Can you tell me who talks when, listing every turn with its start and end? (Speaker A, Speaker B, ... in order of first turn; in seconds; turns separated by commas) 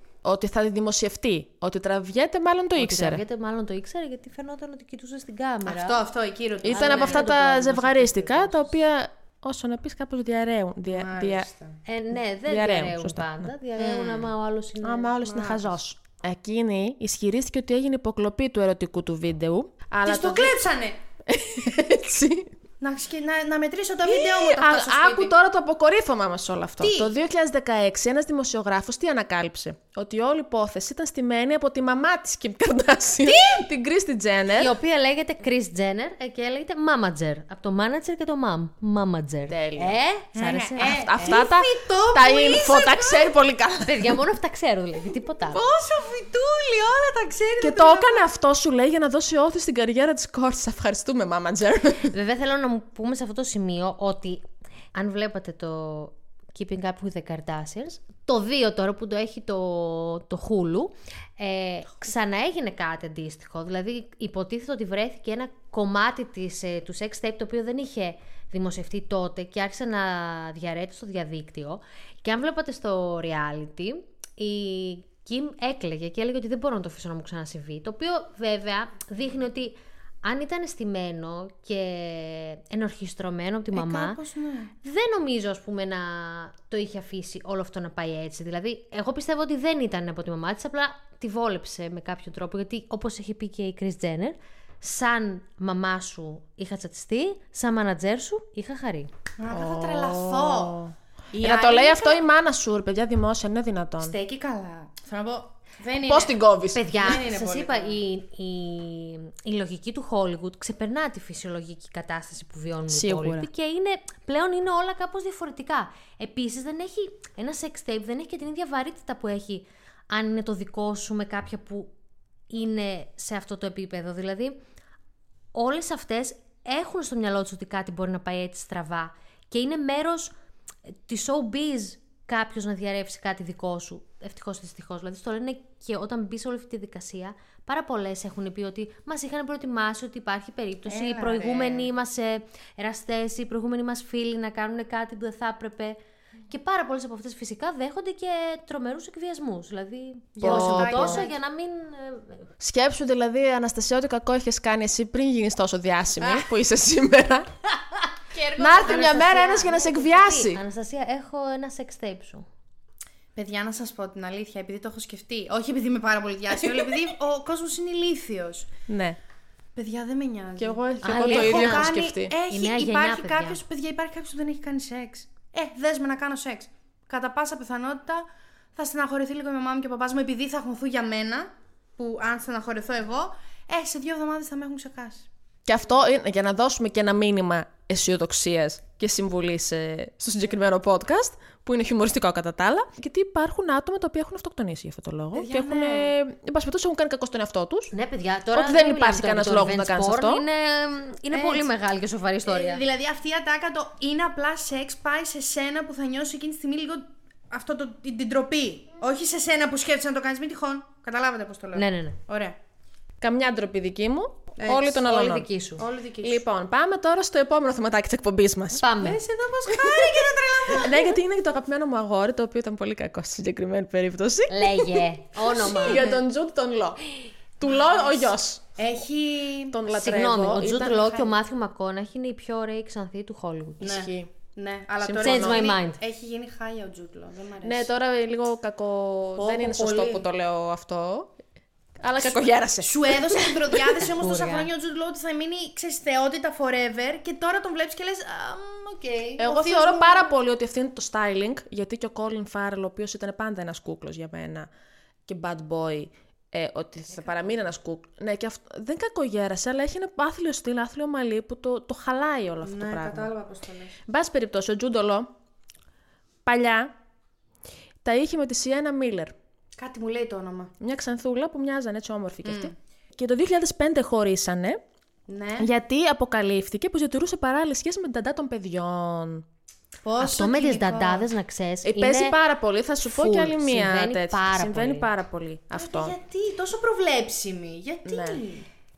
Speaker A: 0.2-3.2, Speaker B: 2.8-6.0, Speaker C: 5.7-7.4, Speaker A: 6.6-11.5, Speaker B: 6.7-8.7, Speaker C: 10.9-11.8, Speaker B: 11.9-15.2, Speaker A: 12.5-13.5, Speaker C: 13.8-14.3, Speaker A: 14.8-20.7, Speaker C: 15.2-15.7, Speaker C: 20.1-21.0, Speaker A: 21.3-22.5, Speaker C: 22.8-25.3, Speaker A: 24.1-34.8, Speaker C: 26.8-27.1, Speaker C: 33.2-33.7, Speaker B: 34.5-41.4, Speaker A: 39.5-40.0, Speaker C: 40.3-43.4, Speaker A: 40.8-44.2, Speaker B: 43.8-45.6, Speaker C: 45.5-48.2, Speaker A: 47.6-52.1, Speaker B: 52.1-84.2, Speaker C: 83.7-84.7, Speaker B: 84.8-99.1, Speaker C: 99.4-100.8, Speaker A: 99.5-104.2, Speaker C: 101.3-102.2, Speaker C: 104.0-106.3, Speaker A: 106.1-106.8, Speaker B: 106.7-121.9, Speaker C: 107.0-108.0, Speaker A: 112.9-113.5, Speaker B: 122.5-124.6, Speaker B: 125.5-130.3, Speaker B: 131.1-146.0, Speaker C: 140.9-141.9, Speaker B: 146.5-152.5, Speaker C: 150.4-151.3, Speaker A: 150.4-151.2, Speaker A: 152.6-157.5, Speaker C: 156.2-156.5, Speaker C: 158.3-159.6, Speaker A: 158.6-160.6, Speaker B: 158.8-162.5, Speaker C: 163.3-168.7, Speaker A: 168.9-169.2, Speaker C: 169.8-185.3, Speaker A: 170.6-172.3, Speaker B: 171.0-171.9, Speaker B: 172.5-173.6, Speaker A: 185.7-197.9, Speaker C: 195.3-196.1, Speaker B: 197.9-202.8, Speaker A: 198.5-200.4, Speaker C: 201.3-201.7, Speaker C: 202.5-212.6, Speaker B: 211.8-212.2, Speaker A: 213.2-215.5, Speaker C: 214.6-215.0, Speaker B: 215.0-215.8, Speaker C: 215.8-216.4, Speaker A: 216.2-219.0, Speaker B: 218.8-219.2, Speaker C: 219.0-221.1, Speaker A: 219.7-228.6, Speaker B: 224.5-226.1, Speaker C: 225.7-226.2, Speaker C: 228.8-229.8, Speaker A: 229.7-231.0, Speaker B: 229.9-233.9, Speaker C: 230.7-231.3, Speaker C: 233.8-237.9, Speaker A: 233.8-234.3, Speaker A: 235.0-235.7, Speaker B: 235.2-236.0, Speaker A: 237.6-241.3, Speaker C: 239.4-240.2, Speaker A: 242.0-244.0, Speaker C: 242.8-250.3, Speaker B: 244.0-244.7, Speaker A: 249.4-254.7, Speaker A: 255.3-263.3, Speaker C: 262.6-264.0, Speaker A: 264.1-265.3, Speaker A: 266.4-266.9, Speaker A: 268.0-269.4, Speaker C: 269.8-270.7, Speaker A: 270.8-274.8, Speaker C: 272.4-272.7, Speaker C: 275.3-275.7, Speaker A: 275.6-279.5, Speaker C: 280.0-281.3, Speaker B: 280.2-282.4, Speaker A: 281.8-286.1, Speaker B: 283.1-285.1, Speaker C: 285.7-288.7, Speaker A: 288.1-288.4